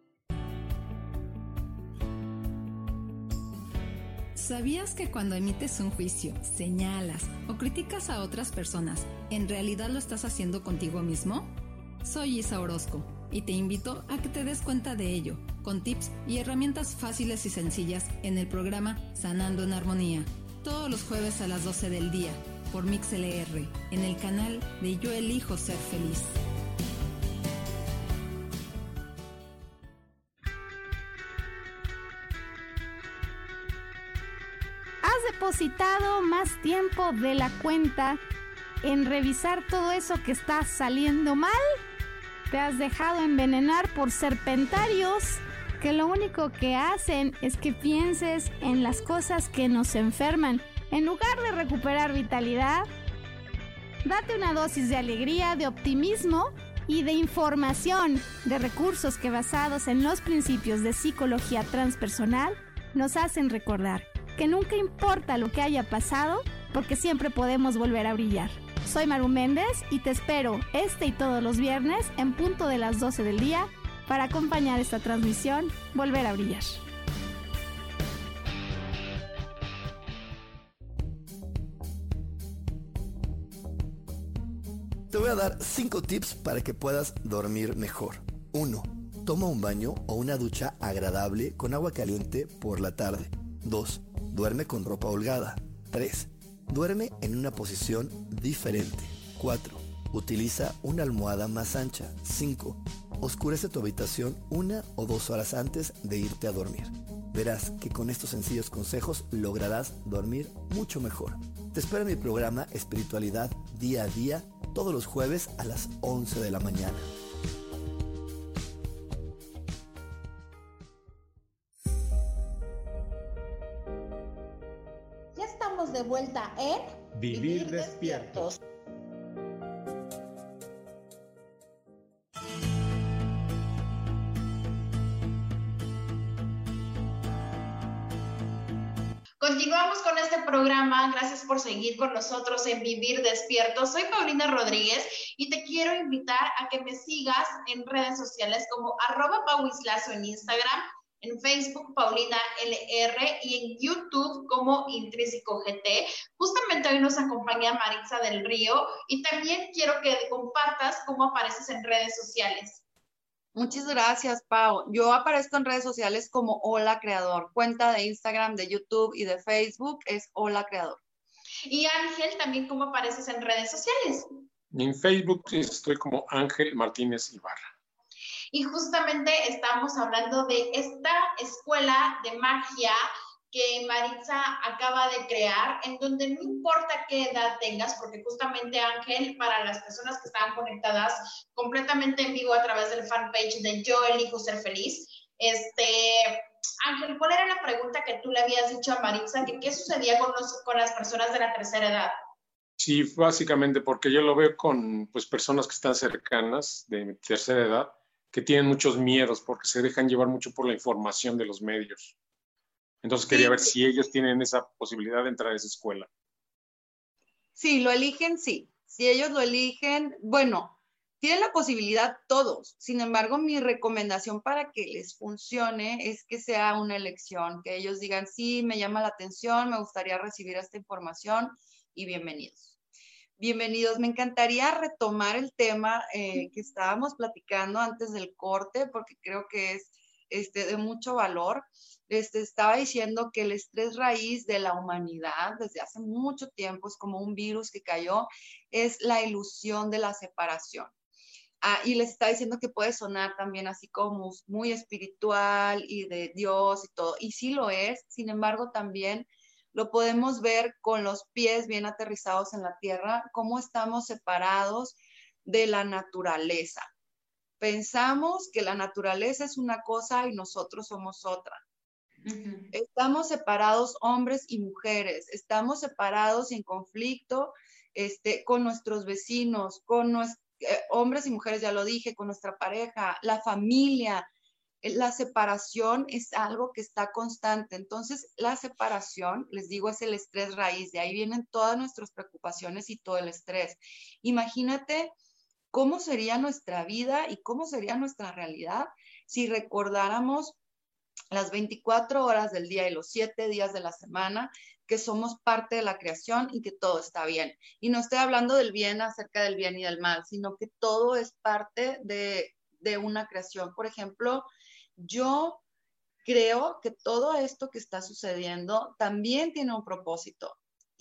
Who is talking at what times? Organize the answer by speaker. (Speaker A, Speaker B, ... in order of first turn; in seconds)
Speaker A: 4.3-11.5, 12.0-26.3
Speaker B: 35.0-38.2, 38.8-41.7, 42.5-52.9, 54.0-76.8
Speaker C: 85.1-117.1
Speaker D: 125.3-128.6
Speaker E: 127.1-128.4, 174.7-177.6, 202.8-212.1, 213.0-216.1
Speaker F: 139.4-162.8, 171.7-174.3, 178.5-183.0, 183.5-202.1
Speaker G: 163.5-171.0, 213.3-213.7, 217.6-232.8, 233.4-250.9, 251.6-266.9, 267.6-271.6, 272.7-284.3, 284.8-295.1, 295.7-300.6, 301.3-315.6, 316.2-320.6